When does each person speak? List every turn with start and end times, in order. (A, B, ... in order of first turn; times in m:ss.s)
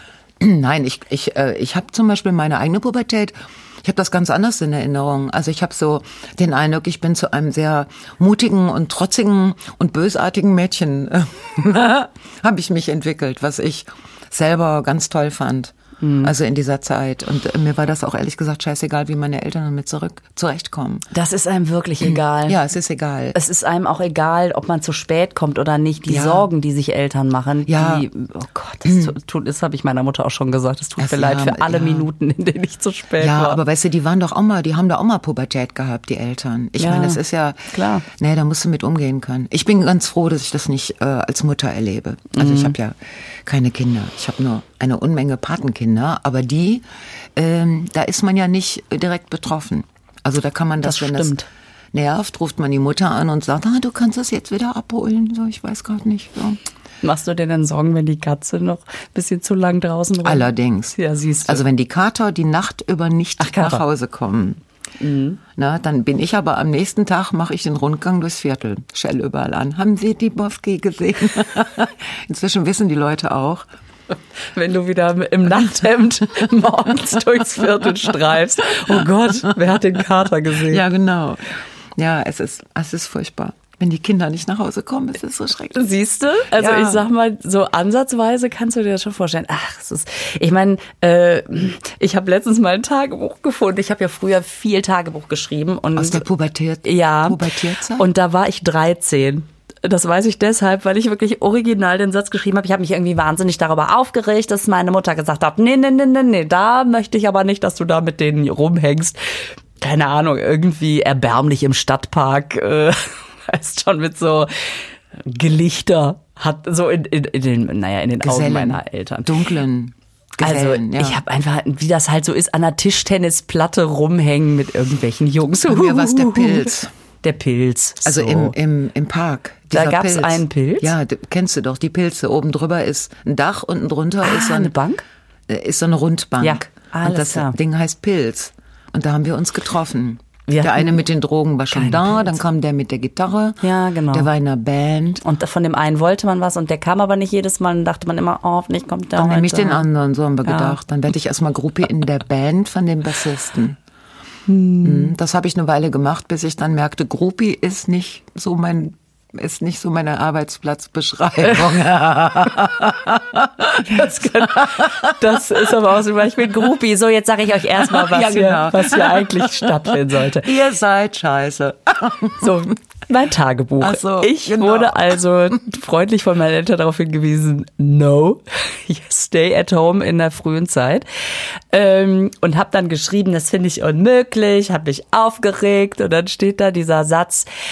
0:00.4-0:21.1 A
0:16.0-0:16.3 B
0:21.1-0:22.6 B
0:22.0-0:23.4 A
0:23.3-0:33.6 B
0:26.1-0:26.5 A
0:27.7-0:28.1 A
0:28.9-0:29.2 A
0:31.0-0:32.1 A
0:33.2-0:51.4 A
0:36.8-0:37.2 B
0:37.7-0:38.1 B
0:42.3-0:42.8 B
0:50.8-0:51.5 B
0:51.9-0:56.6 A
0:57.0-1:01.6 B
1:00.2-1:04.6 A
1:03.4-1:03.8 B
1:05.0-1:05.4 B
1:05.6-1:13.6 A
1:14.5-1:20.8 B
1:18.9-1:19.5 A
1:20.6-1:25.8 A
1:25.7-1:36.2 B
1:26.5-1:27.0 A
1:36.0-1:38.1 A
1:36.8-1:59.3 B
1:58.2-2:01.2 A
2:00.4-2:08.6 B
2:05.6-2:06.9 A
2:08.0-2:14.8 A
2:09.7-2:10.9 B
2:14.2-2:15.0 B
2:15.5-2:25.2 A
2:16.4-2:17.6 B
2:20.5-2:21.0 B
2:21.7-2:22.4 B
2:23.6-2:24.3 B
2:25.2-2:29.9 B
2:29.2-2:33.8 A
2:30.4-2:30.8 B
2:34.5-2:35.2 B
2:34.8-2:45.2 A
2:41.5-2:41.7 B
2:43.7-2:50.5 B
2:47.8-2:52.6 A
2:52.4-3:01.1 B
2:53.8-2:55.2 A
3:01.7-3:07.5 B